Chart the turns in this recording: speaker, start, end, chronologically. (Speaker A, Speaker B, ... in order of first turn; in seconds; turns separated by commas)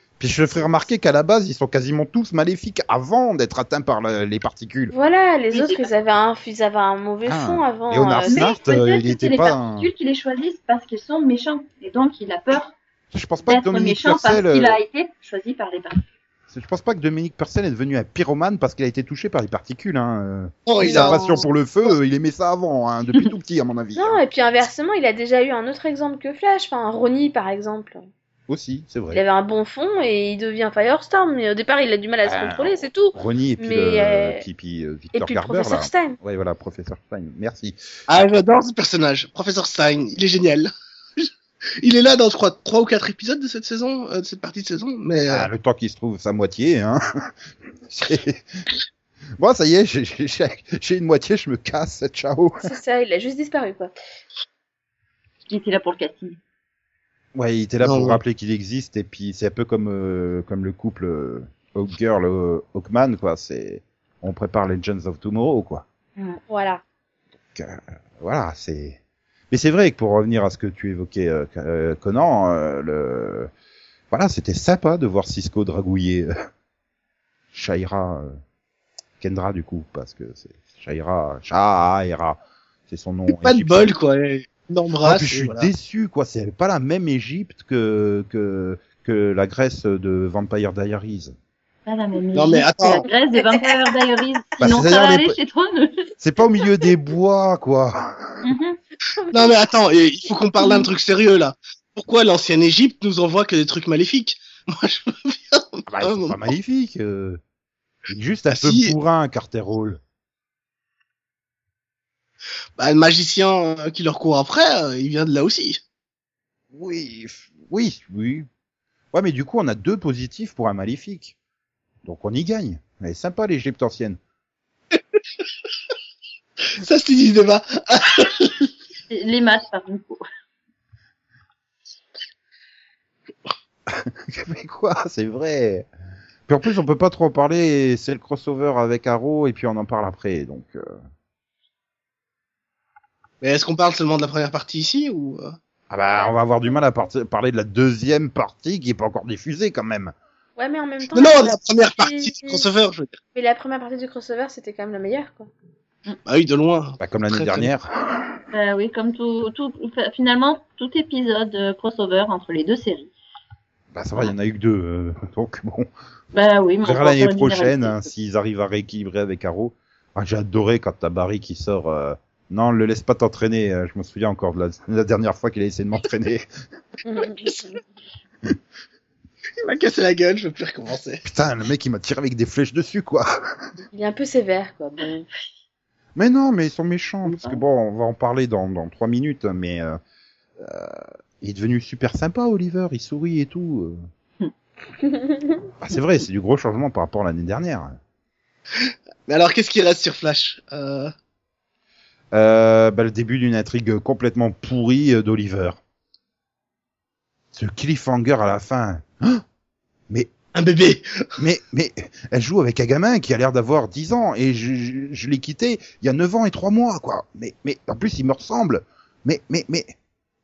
Speaker A: 0.2-4.9, Speaker B: 4.9-8.5, Speaker C: 5.5-5.9, Speaker A: 7.2-9.9, Speaker C: 8.3-12.7, Speaker A: 13.1-14.8, Speaker C: 13.5-16.0, Speaker A: 16.5-24.2, Speaker D: 20.7-21.4, Speaker B: 20.8-21.5, Speaker B: 23.9-28.1, Speaker A: 28.5-29.2, Speaker B: 29.1-34.5, Speaker A: 32.2-38.3, Speaker B: 35.1-36.2, Speaker D: 38.1-45.5, Speaker A: 45.3-47.0, Speaker A: 47.9-48.6, Speaker A: 49.4-52.6, Speaker B: 52.6-53.9, Speaker C: 55.5-56.4, Speaker A: 57.4-65.8, Speaker D: 57.8-58.2, Speaker B: 66.5-66.8, Speaker A: 67.5-69.0, Speaker A: 69.5-73.5, Speaker A: 74.1-76.3, Speaker A: 77.5-78.3, Speaker A: 79.2-83.9, Speaker D: 83.3-85.7, Speaker A: 85.0-91.4, Speaker C: 91.9-96.1, Speaker D: 92.3-93.0, Speaker A: 94.6-95.4, Speaker A: 96.2-98.4, Speaker C: 98.4-98.8, Speaker B: 99.2-99.6, Speaker D: 99.3-106.4, Speaker A: 105.9-107.4, Speaker A: 108.1-110.0, Speaker D: 108.5-108.9, Speaker D: 112.8-115.8, Speaker A: 116.7-118.5, Speaker A: 119.1-121.3, Speaker A: 122.0-124.2, Speaker D: 126.8-128.7, Speaker C: 129.1-130.2, Speaker A: 133.9-135.9, Speaker A: 136.5-141.0, Speaker D: 143.4-145.6, Speaker A: 145.9-150.2, Speaker B: 150.6-152.7, Speaker D: 151.1-153.2, Speaker B: 153.3-155.5, Speaker D: 156.2-157.7, Speaker A: 157.0-158.3, Speaker C: 158.5-163.1, Speaker A: 163.9-165.9, Speaker C: 166.3-168.1, Speaker A: 166.8-176.5, Speaker B: 177.1-177.8, Speaker D: 179.6-181.2, Speaker A: 181.2-183.3, Speaker B: 183.9-185.3, Speaker A: 186.2-190.0, Speaker C: 187.3-187.6, Speaker A: 190.6-194.0, Speaker B: 195.2-195.5, Speaker A: 195.8-198.0, Speaker D: 198.8-201.1, Speaker A: 202.3-205.8, Speaker A: 207.5-209.4, Speaker D: 210.5-211.2, Speaker A: 211.4-219.9